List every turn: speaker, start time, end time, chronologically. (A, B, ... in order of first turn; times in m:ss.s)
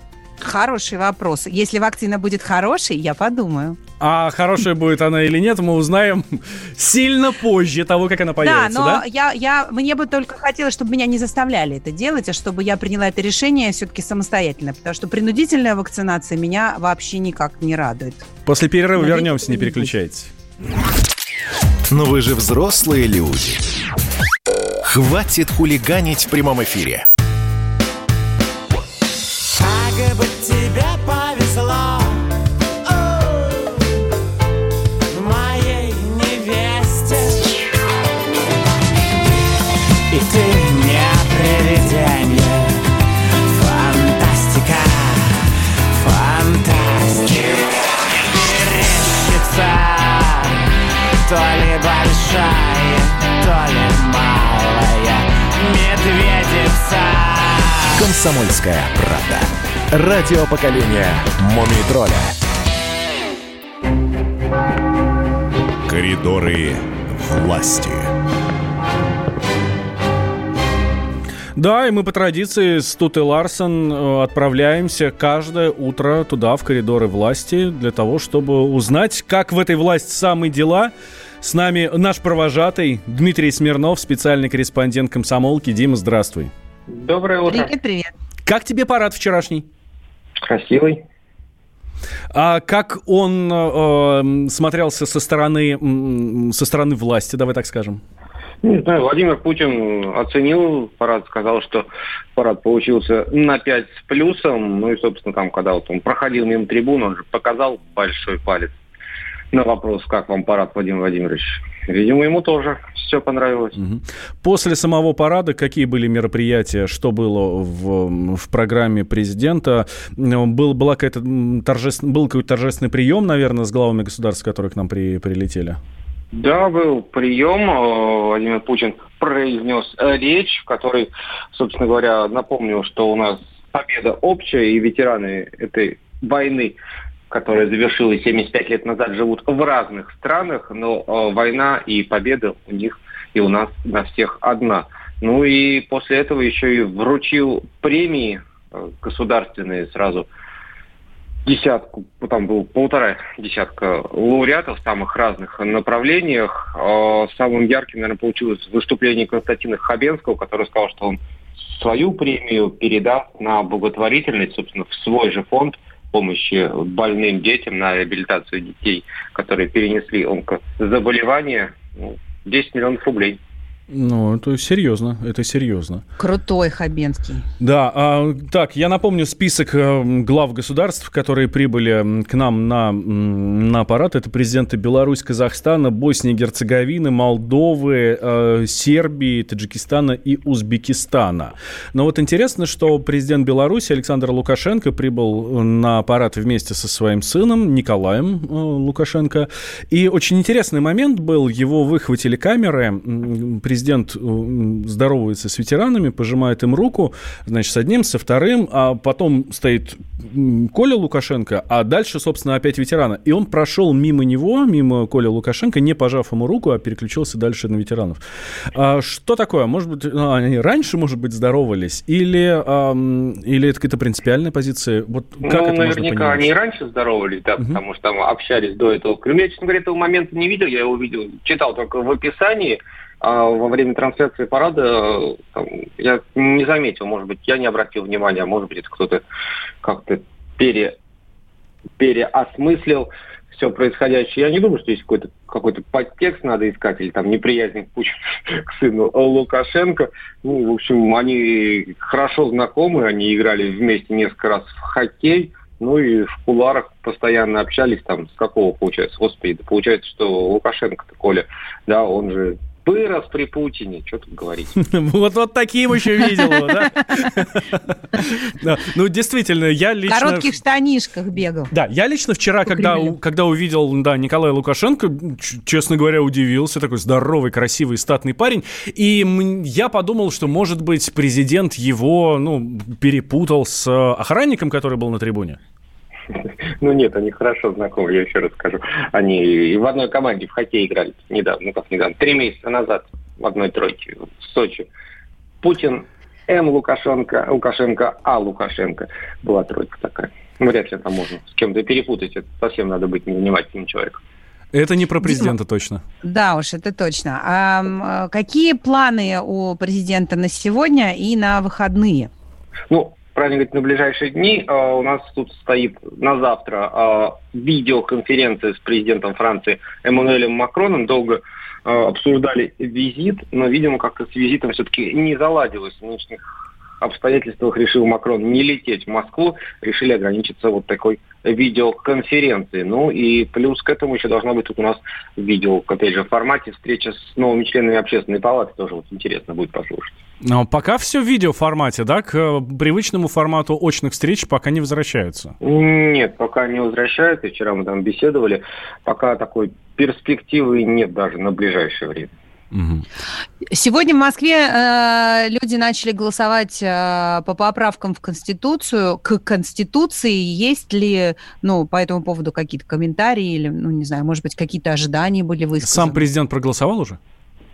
0:00.4-0:03.8 A
0:04.0-0:09.0 B
0:08.4-0:18.2 A
0:18.4-0:20.3 B
0:19.0-0:19.9 A
0:21.9-0:23.6 C
0:24.8-0:27.1 C
0:29.6-0:32.2 D
0:35.1-0:37.4 D
0:40.1-0:42.7 D
0:43.6-0:45.3 D
0:46.0-0:47.6 D
0:48.5-0:50.4 D
0:51.3-0:57.9 D
0:57.9-1:02.4 C
1:05.8-1:08.1 C
1:11.6-1:26.5 B
1:26.9-1:27.7 E
1:27.5-1:28.1 A
1:28.4-1:29.6 B
1:30.4-1:31.0 E
1:32.3-1:38.0 B
1:38.6-1:48.7 E
1:49.5-1:53.8 E
1:53.8-2:05.8 B
2:06.3-2:16.8 E
2:17.3-2:30.3 E
2:31.4-2:53.4 E
2:53.9-2:56.0 B
2:56.2-2:57.4 A
2:57.6-3:38.2 B
3:38.7-3:46.5 B
3:45.4-3:59.2 E
3:59.8-4:01.0 E
4:02.0-4:24.7 E
4:24.8-4:30.5 B
4:30.1-4:31.7 A
4:31.7-4:45.6 B
4:32.7-4:33.1 A
4:46.4-4:54.9 E
4:55.6-5:04.2 E
5:04.7-5:06.0 B
5:05.2-5:05.5 A
5:06.2-5:12.3 A
5:12.9-5:26.4 E
5:27.0-5:40.2 E
5:40.4-5:45.5 B
5:45.6-5:52.3 E
5:52.7-5:53.0 B
5:53.7-6:06.2 A
6:05.8-6:07.2 B